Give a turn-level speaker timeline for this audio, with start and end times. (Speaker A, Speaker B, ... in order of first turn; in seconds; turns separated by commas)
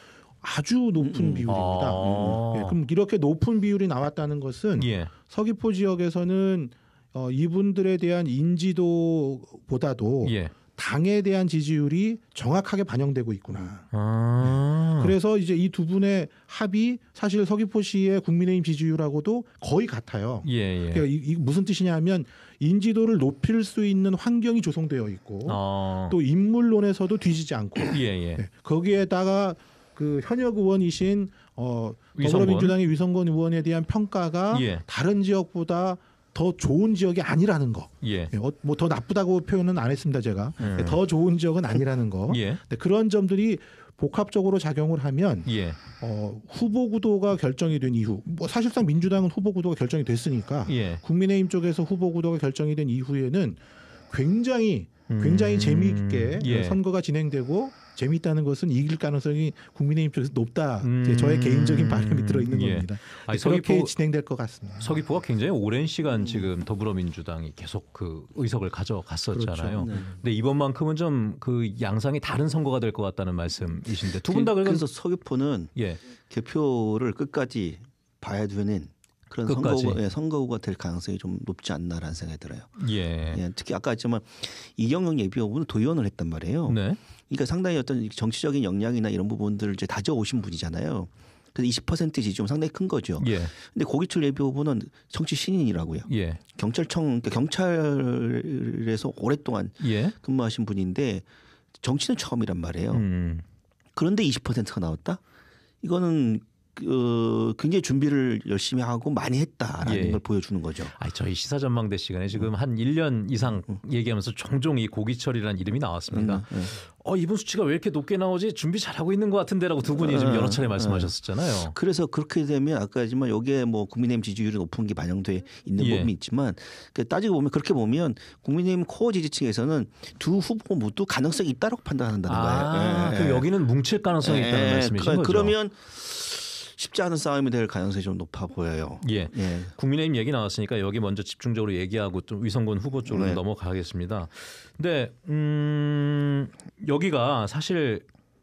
Speaker A: 0.4-13.9, Speaker B: 1.0-1.5, Speaker C: 1.5-2.8, Speaker B: 2.0-2.4, Speaker C: 4.8-5.1, Speaker C: 10.2-10.5, Speaker C: 13.9-15.2, Speaker A: 14.4-65.0, Speaker C: 20.4-21.1, Speaker C: 25.4-26.2, Speaker C: 27.9-28.4, Speaker C: 32.2-32.8, Speaker C: 34.5-34.8, Speaker C: 38.0-38.3, Speaker C: 40.6-41.0, Speaker C: 42.3-42.6, Speaker C: 45.5-45.8, Speaker C: 50.7-51.0, Speaker C: 55.1-56.8, Speaker C: 60.8-63.9, Speaker C: 64.8-74.9, Speaker A: 69.3-70.2, Speaker B: 69.8-70.1, Speaker B: 74.1-101.3, Speaker C: 75.8-76.0, Speaker C: 79.5-80.0, Speaker C: 82.8-83.4, Speaker C: 86.7-87.0, Speaker C: 93.2-93.5, Speaker C: 96.1-96.4, Speaker C: 99.8-100.2, Speaker B: 101.8-103.0, Speaker C: 102.9-103.4, Speaker B: 104.0-105.2, Speaker B: 105.8-110.9, Speaker C: 109.8-110.2, Speaker C: 110.9-121.8, Speaker B: 116.1-116.8, Speaker B: 119.8-133.5, Speaker C: 125.8-126.1, Speaker C: 132.3-135.6, Speaker B: 134.2-139.7, Speaker C: 139.0-148.1, Speaker B: 143.1-143.4